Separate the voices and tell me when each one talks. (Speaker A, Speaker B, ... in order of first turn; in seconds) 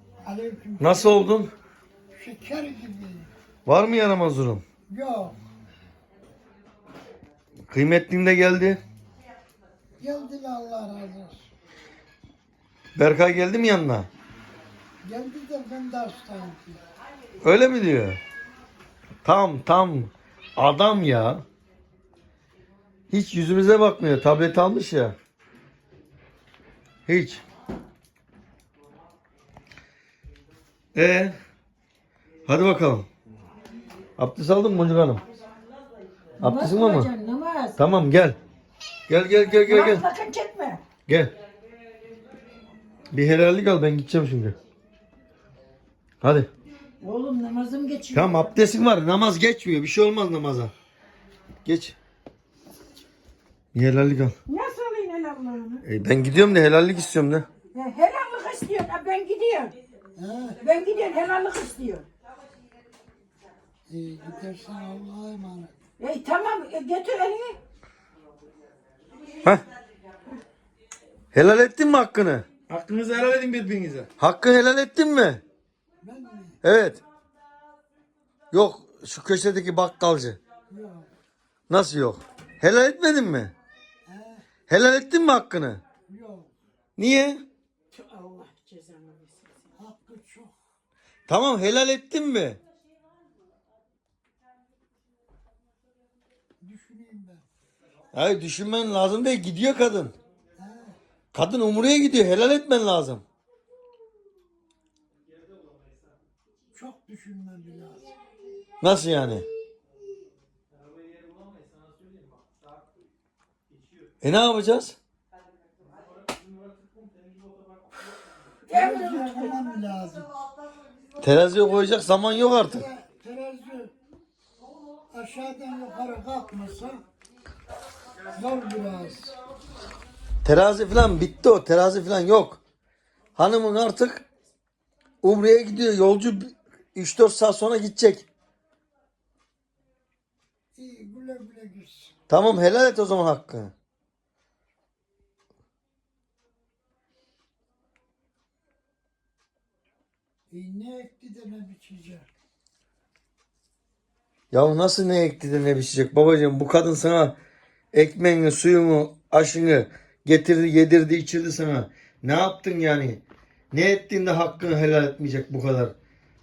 Speaker A: 0.2-1.2, 2.2-3.3, 4.9-5.4, 10.0-11.4, 15.0-16.8, 60.1-60.6, 63.9-65.7, 76.0-76.6, 80.7-81.1, 84.0-84.4, 86.1-86.5, 89.8-90.5, 96.6-97.5, 100.6-101.0, 106.7-108.3, 118.7-120.3, 122.6-123.9, 125.1-127.0, 128.3-129.3, 140.7-142.1, 150.5-152.3
Speaker B: 0.8-1.5, 3.6-4.6, 7.7-8.8, 12.9-14.1, 17.4-18.2, 19.2-21.4, 23.1-25.1, 27.1-27.4, 30.9-31.4, 32.5-33.1, 34.2-35.2, 36.4-37.1, 37.8-38.4, 39.1-40.0, 41.1-41.3, 43.1-44.6, 46.2-46.5, 48.1-50.7, 51.6-52.0, 53.7-54.4, 55.8-57.5, 71.3-75.4, 76.6-77.0, 78.5-80.4, 81.7-83.5, 84.7-85.8, 87.0-87.4, 91.3-92.6, 98.1-100.2, 101.3-103.2, 108.8-109.5, 114.2-115.0, 121.2-122.8, 130.4-132.6, 133.3-134.2, 135.2-138.3, 142.3-143.7, 154.5-157.3, 157.9-165.9
Speaker C: 36.4-37.8, 39.5-40.8, 47.0-48.5, 54.5-55.8, 57.7-59.8, 60.6-62.0, 66.0-67.6, 87.9-89.7, 118.7-119.5